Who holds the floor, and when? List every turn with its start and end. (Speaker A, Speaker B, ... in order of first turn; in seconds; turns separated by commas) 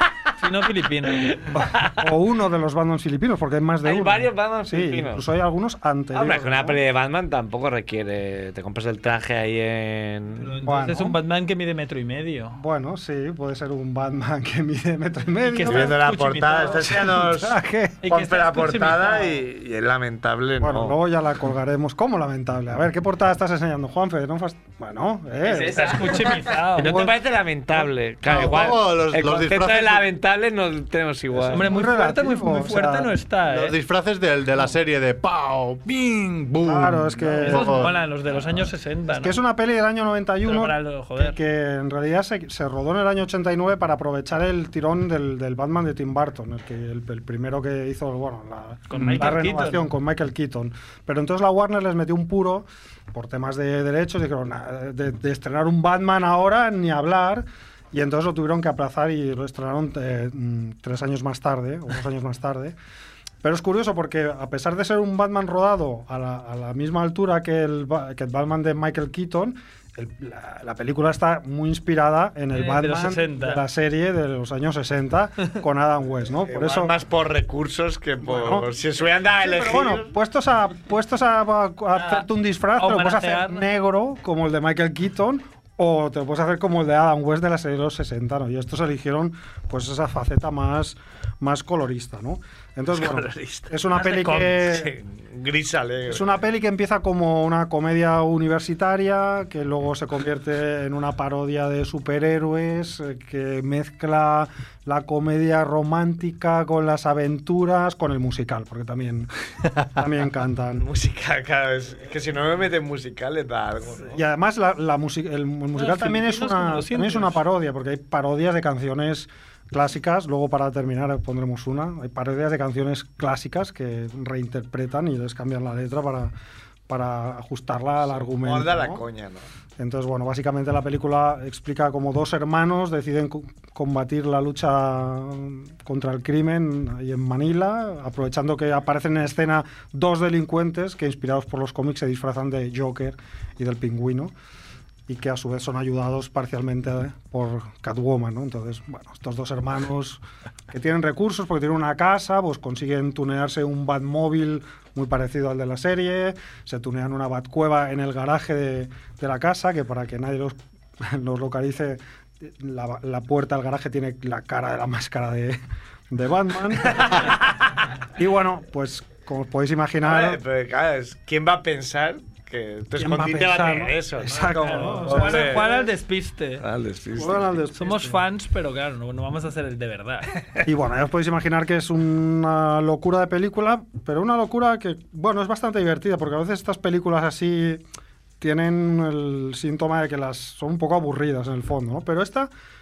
Speaker A: 0.3-1.4, Speaker B: 1.3-2.0, Speaker C: 1.5-6.8, Speaker B: 3.8-5.2, Speaker B: 6.1-10.5, Speaker A: 10.4-12.6, Speaker C: 10.6-11.2, Speaker C: 12.5-16.0, Speaker A: 15.4-16.9, Speaker B: 15.7-20.9, Speaker C: 16.8-18.0, Speaker A: 18.0-19.4, Speaker C: 20.6-26.2, Speaker A: 25.5-26.9, Speaker C: 26.8-27.1, Speaker B: 26.8-31.6, Speaker D: 28.2-30.0, Speaker C: 31.4-33.1, Speaker A: 31.5-33.7, Speaker D: 33.4-37.9, Speaker C: 36.6-37.9, Speaker A: 37.4-39.4, Speaker C: 39.1-62.8, Speaker A: 40.4-41.4, Speaker A: 48.9-49.8, Speaker C: 63.4-76.9, Speaker A: 72.5-73.6, Speaker B: 76.5-80.1, Speaker C: 78.2-78.7, Speaker C: 79.4-94.9, Speaker A: 82.8-83.6, Speaker B: 92.9-96.3, Speaker C: 96.1-110.8, Speaker B: 110.8-114.2, Speaker C: 114.1-126.3, Speaker A: 115.8-117.4, Speaker C: 126.9-129.0, Speaker B: 128.1-129.5, Speaker C: 129.8-144.3, Speaker C: 145.1-165.6, Speaker C: 166.1-167.3, Speaker B: 166.8-167.4, Speaker C: 168.2-170.4, Speaker B: 170.0-175.9, Speaker C: 173.0-175.7, Speaker A: 174.6-176.6, Speaker B: 176.6-177.7, Speaker C: 177.1-178.2, Speaker A: 177.7-180.3, Speaker C: 180.6-187.8, Speaker C: 188.4-192.5